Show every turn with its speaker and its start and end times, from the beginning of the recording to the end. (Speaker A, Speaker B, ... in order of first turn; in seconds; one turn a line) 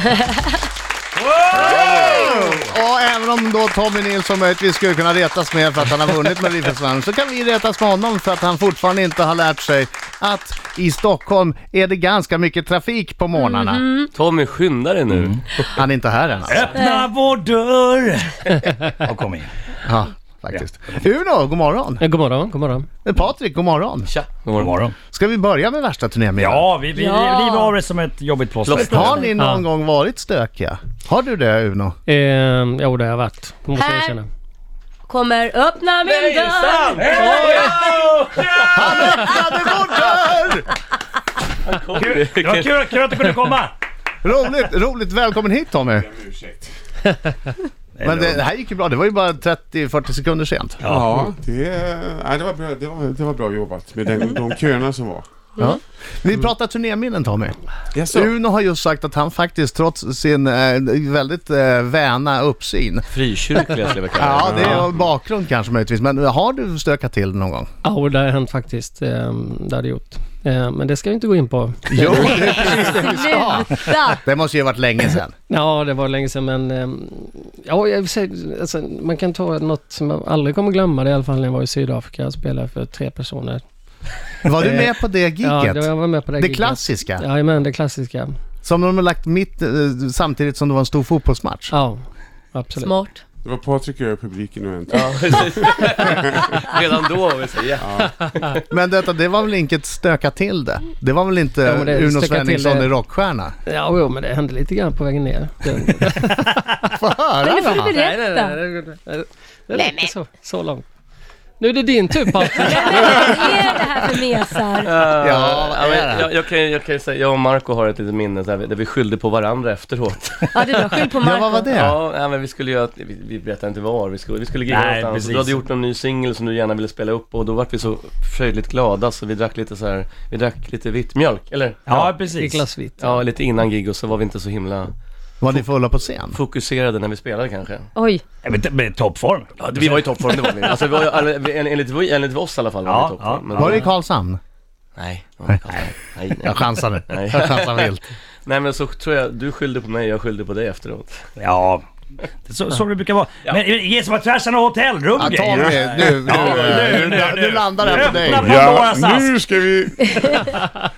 Speaker A: 1.2-2.4
Speaker B: 1.6-13.8
Speaker C: 13.4-14.1
Speaker D: 14.1-15.7
Speaker A: 15.1-15.4
Speaker B: 15.7-16.8
Speaker A: 16.5-19.5
Speaker C: 16.7-17.1
Speaker B: 19.8-22.0
Speaker E: 22.0-22.9
Speaker B: 23.0-24.1
Speaker D: 24.1-24.8
Speaker A: 24.6-24.9
Speaker B: 25.1-26.7
Speaker A: 26.4-29.1
Speaker C: 26.9-27.7
Speaker D: 28.6-29.1
Speaker B: 28.8-31.9
Speaker E: 29.4-29.6
Speaker E: 32.0-34.3
Speaker C: 33.7-34.2
Speaker C: 35.1-37.0
Speaker D: 36.0-39.3
Speaker A: 36.9-38.0
Speaker E: 37.1-37.7
Speaker B: 38.7-40.7
Speaker D: 41.6-43.3
Speaker A: 42.0-43.7
Speaker B: 44.2-46.1
Speaker F: 46.0-46.7
Speaker A: 48.0-48.4
Speaker B: 48.0-50.8
Speaker A: 50.8-51.3
Speaker F: 50.8-55.2
Speaker B: 55.6-57.5
Speaker F: 57.9-58.3
Speaker B: 58.1-63.0
Speaker D: 63.1-64.9
Speaker B: 64.1-67.7
Speaker F: 64.4-64.8
Speaker E: 67.8-73.0
Speaker B: 71.9-75.3
Speaker C: 72.1-74.2
Speaker E: 75.5-83.6
Speaker B: 84.4-87.2
Speaker E: 84.6-88.4
Speaker B: 88.6-91.7
Speaker E: 91.7-92.0
Speaker E: 92.5-92.9
Speaker C: 92.8-93.2
Speaker F: 93.4-96.8
Speaker D: 94.9-98.6
Speaker F: 97.8-98.1
Speaker B: 98.7-103.5
Speaker E: 101.6-102.9
Speaker E: 103.7-106.9
Speaker B: 107.0-107.9
Speaker C: 107.4-108.6
Speaker E: 107.7-110.8
Speaker C: 109.8-110.1
Speaker E: 111.6-113.8
Speaker C: 112.6-115.0
Speaker D: 114.8-120.6
Speaker B: 115.1-116.3
Speaker C: 120.5-121.7
Speaker B: 121.2-122.0
Speaker D: 121.7-132.2
Speaker A: 124.7-125.6
Speaker A: 131.8-132.6
Speaker E: 132.3-133.2
Speaker D: 133.0-134.9
Speaker B: 135.4-136.4
Speaker D: 136.3-137.9
Speaker C: 137.9-138.2
Speaker A: 138.4-140.7
Speaker D: 139.6-143.9
Speaker A: 142.8-143.8
Speaker B: 143.6-144.4
Speaker D: 144.9-147.9
Speaker B: 146.4-148.0
Speaker D: 148.4-151.3
Speaker A: 151.4-151.8
Speaker A: 152.5-159.4
Speaker B: 155.2-158.6
Speaker F: 155.5-156.6
Speaker D: 155.7-157.0
Speaker F: 157.9-160.5
Speaker A: 160.1-160.6